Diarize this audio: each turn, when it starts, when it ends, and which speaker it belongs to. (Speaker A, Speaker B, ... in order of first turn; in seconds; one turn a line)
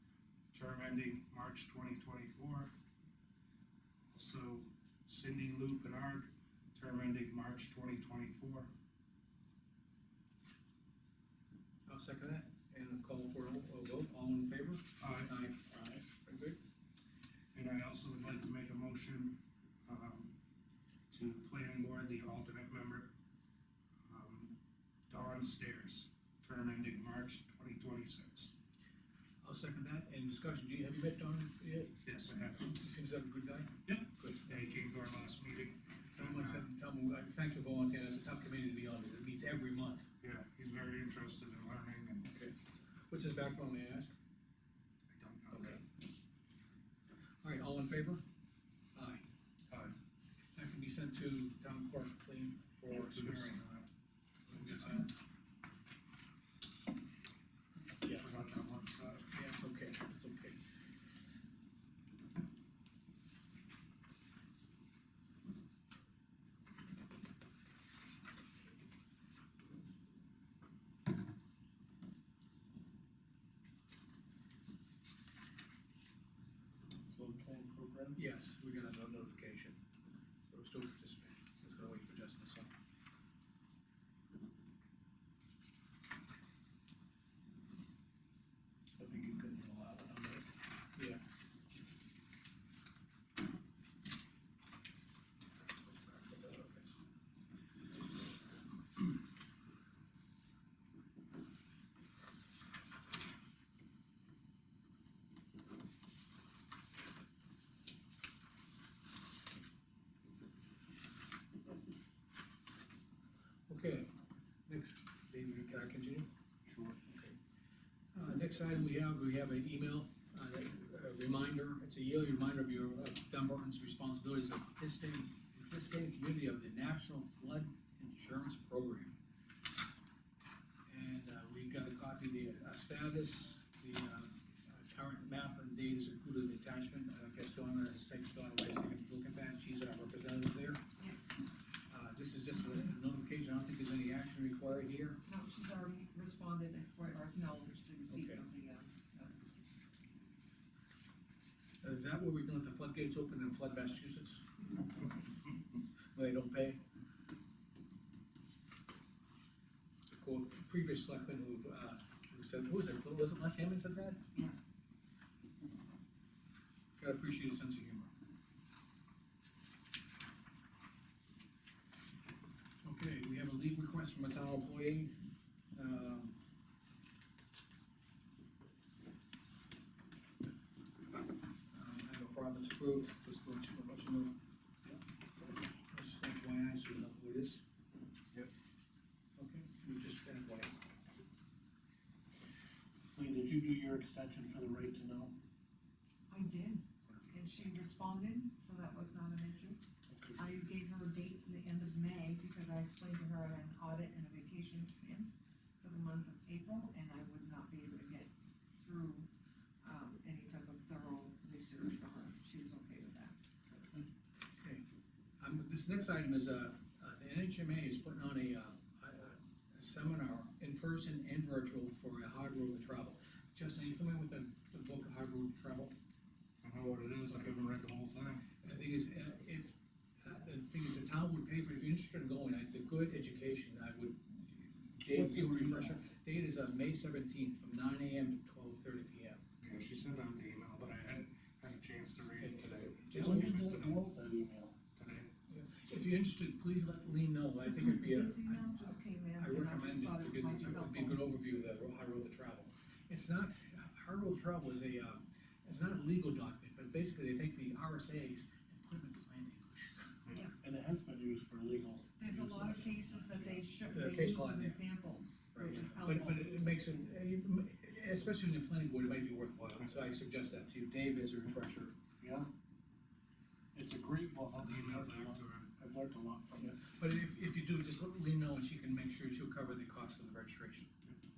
Speaker A: 0.5-2.7
Speaker A: 4.1-8.7
Speaker B: 11.9-16.6
Speaker A: 15.0-15.4
Speaker A: 17.5-20.4
Speaker A: 21.1-23.1
Speaker A: 24.1-24.6
Speaker A: 25.1-28.5
Speaker B: 29.4-32.0
Speaker A: 32.0-32.9
Speaker B: 32.7-34.5
Speaker A: 33.9-36.7
Speaker B: 36.2-40.1
Speaker A: 40.2-42.3
Speaker B: 42.2-42.5
Speaker B: 43.1-44.1
Speaker A: 45.1-45.8
Speaker B: 45.5-45.8
Speaker B: 47.4-48.2
Speaker B: 48.9-49.2
Speaker A: 49.7-50.0
Speaker B: 50.5-53.7
Speaker A: 52.9-53.9
Speaker B: 54.5-55.1
Speaker A: 54.5-55.1
Speaker A: 58.0-59.3
Speaker B: 59.3-60.6
Speaker C: 77.1-78.2
Speaker B: 78.2-79.8
Speaker B: 80.5-82.7
Speaker C: 89.0-90.5
Speaker B: 91.0-91.2
Speaker B: 95.9-96.9
Speaker B: 113.7-114.1
Speaker B: 114.7-116.3
Speaker B: 116.9-117.3
Speaker B: 118.1-129.1
Speaker B: 130.9-140.8
Speaker B: 141.9-145.2
Speaker D: 145.2-149.7
Speaker B: 148.1-148.4
Speaker B: 151.8-154.4
Speaker B: 156.1-156.8
Speaker B: 160.1-164.2
Speaker B: 167.0-168.1
Speaker B: 172.8-175.1
Speaker B: 175.7-176.3
Speaker B: 181.7-184.3
Speaker B: 185.9-187.6
Speaker B: 189.4-190.7
Speaker C: 193.1-195.4
Speaker D: 196.3-199.8
Speaker C: 200.1-200.4
Speaker D: 200.4-209.3
Speaker D: 209.8-213.4
Speaker B: 215.4-225.9
Speaker A: 226.6-228.5
Speaker B: 228.6-239.4
Speaker C: 235.0-236.0
Speaker A: 239.6-244.1
Speaker B: 242.4-243.6
Speaker C: 243.1-244.8
Speaker A: 244.9-245.3
Speaker B: 245.5-260.2
Speaker D: 247.7-251.2
Speaker C: 260.6-263.7
Speaker D: 262.2-266.6
Speaker B: 263.9-264.8
Speaker B: 265.5-271.9
Speaker C: 272.2-272.5
Speaker C: 273.7-276.8
Speaker A: 274.5-275.7
Speaker B: 276.6-280.9